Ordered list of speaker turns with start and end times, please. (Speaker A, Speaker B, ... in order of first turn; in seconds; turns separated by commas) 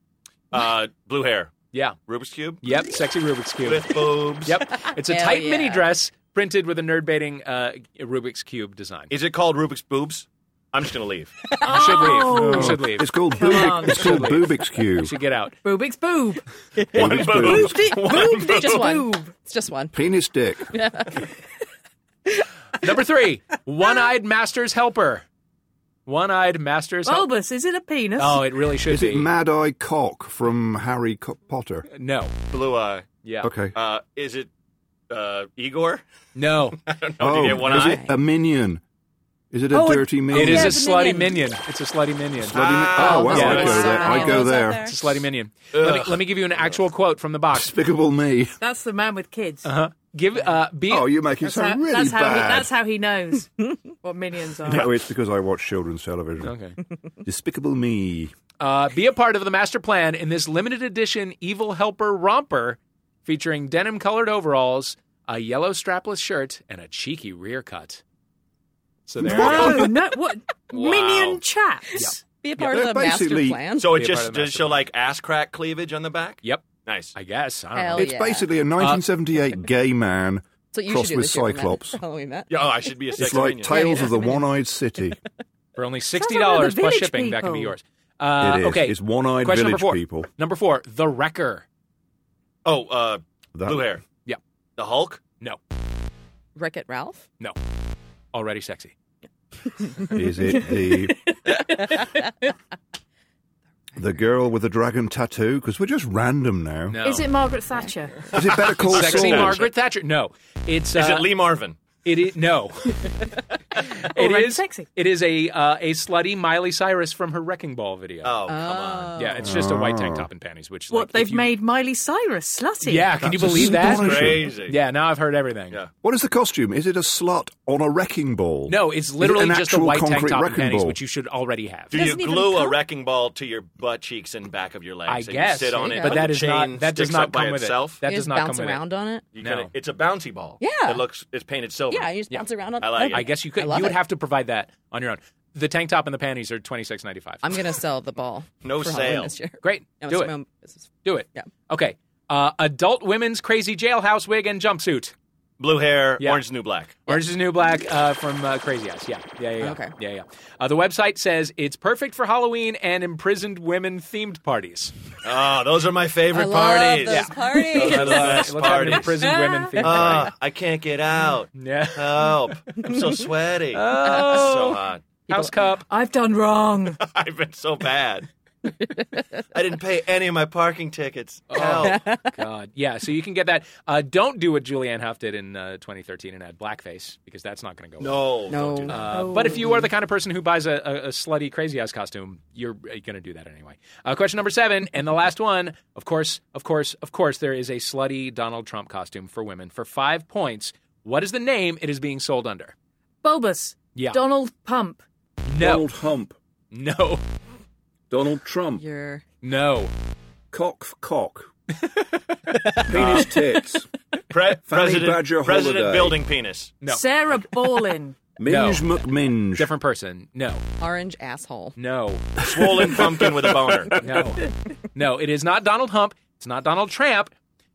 Speaker A: 0.5-1.5, Speaker A: 2.0-2.6, Speaker B: 2.6-9.1, Speaker A: 3.6-4.6, Speaker C: 4.8-5.9, Speaker A: 9.1-11.3, Speaker D: 11.6-14.1, Speaker B: 11.6-15.6, Speaker E: 12.3-15.1, Speaker D: 15.6-16.4, Speaker A: 16.8-18.9, Speaker C: 16.8-20.0, Speaker E: 16.9-17.8, Speaker D: 17.5-19.3, Speaker E: 19.9-20.8, Speaker C: 20.7-21.2, Speaker B: 22.8-25.2, Speaker B: 26.1-27.3, Speaker D: 27.0-28.5, Speaker B: 28.2-29.3, Speaker E: 28.9-31.9, Speaker B: 31.9-32.4, Speaker A: 32.5-33.1, Speaker B: 33.2-33.5, Speaker E: 33.4-33.7, Speaker A: 33.7-34.5, Speaker A: 35.1-36.0, Speaker B: 36.3-36.8, Speaker A: 36.8-38.0, Speaker E: 37.2-38.8, Speaker C: 37.6-38.1, Speaker E: 39.5-40.8, Speaker C: 39.7-41.4, Speaker B: 40.3-42.6, Speaker E: 42.4-44.9, Speaker A: 42.5-44.0, Speaker C: 43.0-45.0, Speaker B: 43.3-47.7, Speaker D: 43.6-44.4, Speaker A: 45.7-46.2, Speaker E: 47.5-48.5, Speaker D: 48.6-49.7, Speaker B: 49.6-51.1, Speaker E: 50.9-52.7, Speaker D: 51.4-54.9, Speaker E: 54.6-56.5, Speaker B: 56.4-56.8, Speaker E: 57.2-58.3, Speaker B: 58.6-68.0, Speaker B: 69.1-69.9, Speaker D: 69.2-72.2, Speaker A: 70.7-71.4, Speaker B: 71.9-72.8, Speaker C: 72.0-73.9, Speaker E: 72.6-73.6, Speaker A: 73.8-77.1, Speaker B: 73.9-74.8, Speaker B: 76.4-78.2, Speaker C: 77.7-78.6, Speaker E: 77.9-82.0, Speaker B: 78.8-79.0, Speaker C: 80.7-82.5, Speaker A: 82.5-83.8, Speaker E: 83.2-85.2, Speaker C: 83.3-84.5, Speaker B: 85.8-91.6, Speaker D: 86.2-87.7, Speaker E: 88.4-90.3, Speaker A: 92.6-94.0, Speaker E: 93.5-93.8, Speaker A: 94.8-95.2, Speaker C: 96.5-97.2, Speaker B: 98.3-98.9, Speaker C: 99.8-100.1, Speaker E: 100.1-101.2, Speaker D: 101.1-102.0, Speaker E: 104.0-107.0, Speaker B: 106.9-107.3, Speaker D: 107.0-108.3, Speaker E: 108.3-109.6, Speaker A: 108.4-109.7, Speaker B: 108.9-111.3, Speaker A: 110.9-111.8, Speaker B: 112.0-113.1, Speaker B: 113.8-118.4, Speaker D: 114.1-114.9, Speaker A: 118.2-119.1, Speaker C: 118.5-119.4, Speaker B: 119.2-121.5, Speaker E: 119.4-120.3, Speaker D: 120.9-123.2, Speaker B: 122.8-125.8, Speaker E: 123.2-124.5, Speaker A: 123.8-124.8, Speaker E: 126.0-131.0, Speaker B: 128.7-131.9, Speaker A: 131.9-138.0, Speaker C: 131.9-132.8, Speaker B: 135.1-139.7, Speaker C: 135.8-136.3, Speaker C: 138.0-139.2, Speaker A: 139.3-142.2, Speaker C: 140.6-141.0, Speaker C: 141.9-144.0, Speaker A: 142.8-143.3, Speaker B: 143.0-147.6, Speaker C: 147.4-151.5, Speaker A: 148.6-149.3, Speaker B: 149.6-150.3, Speaker B: 151.0-155.1, Speaker A: 155.6-156.9, Speaker B: 157.1-164.9, Speaker C: 159.6-159.9, Speaker A: 165.2-169.2, Speaker C: 166.3-168.9, Speaker B: 167.1-170.3, Speaker D: 169.1-169.8, Speaker A: 169.8-175.0, Speaker B: 171.5-172.3, Speaker B: 173.7-175.8, Speaker C: 174.1-174.4, Speaker D: 175.9-177.0, Speaker A: 177.0-178.3, Speaker A: 179.5-182.0, Speaker B: 181.5-188.2, Speaker C: 181.6-182.3, Speaker A: 188.0-189.1, Speaker C: 188.5-189.6, Speaker B: 188.9-202.7, Speaker D: 189.1-189.8, Speaker D: 203.2-205.0, Speaker B: 203.9-204.2, Speaker B: 205.5-205.9, Speaker E: 205.6-206.3, Speaker B: 206.7-207.2, Speaker E: 208.1-208.8, Speaker C: 208.8-209.2, Speaker B: 209.4-209.9, Speaker E: 210.5-211.5, Speaker E: 212.8-213.9, Speaker A: 212.9-213.3, Speaker A: 214.3-216.8, Speaker E: 214.7-216.2, Speaker B: 216.8-217.1, Speaker D: 216.8-218.2, Speaker E: 218.4-219.7, Speaker B: 218.5-219.0, Speaker B: 219.5-220.6, Speaker C: 220.8-221.8, Speaker B: 221.8-222.3, Speaker A: 222.4-224.0, Speaker E: 222.8-223.1, Speaker B: 223.9-227.3